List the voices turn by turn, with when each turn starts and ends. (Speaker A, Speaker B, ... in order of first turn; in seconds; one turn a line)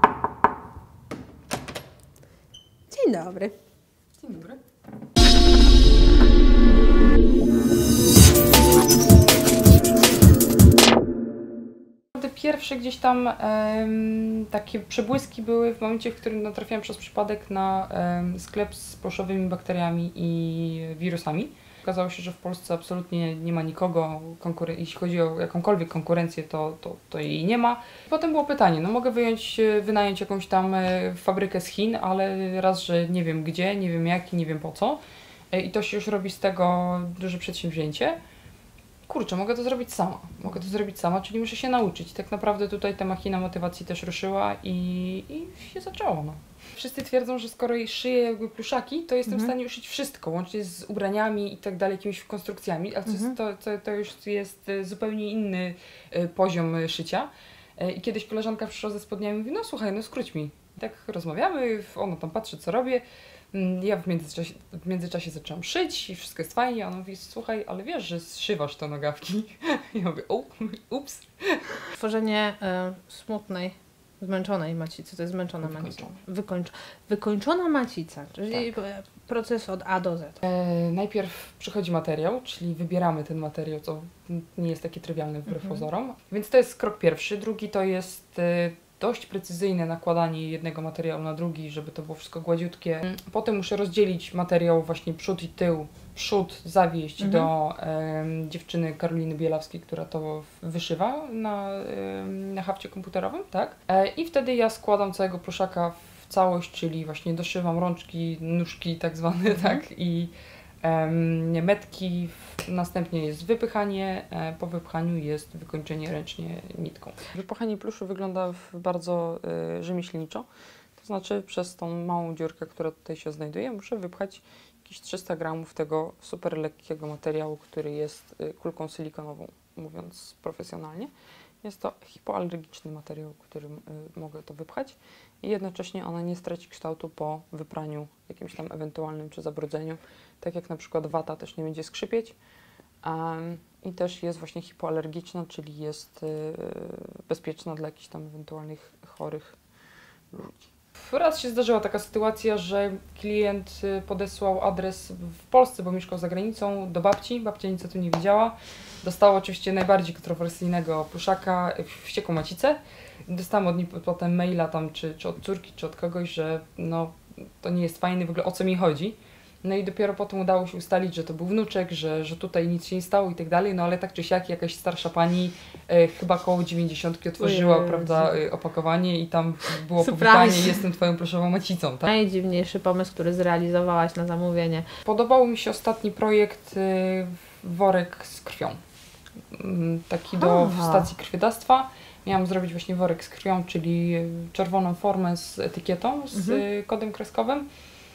Speaker A: 2.9-3.5
Speaker B: 4.2-4.6
Speaker B: 12.1-38.2
Speaker B: 39.1-71.8
Speaker A: 71.9-80.4
Speaker B: 75.6-76.2
Speaker B: 80.4-142.4
Speaker A: 97.2-97.5
Speaker A: 109.5-109.8
Speaker B: 143.0-149.6
Speaker B: 150.3-182.1
Speaker A: 177.4-178.4
Speaker A: 180.0-180.8
Speaker A: 182.1-184.9
Speaker B: 185.1-188.8
Speaker B: 189.5-197.7
Speaker A: 190.4-191.1
Speaker A: 196.3-196.6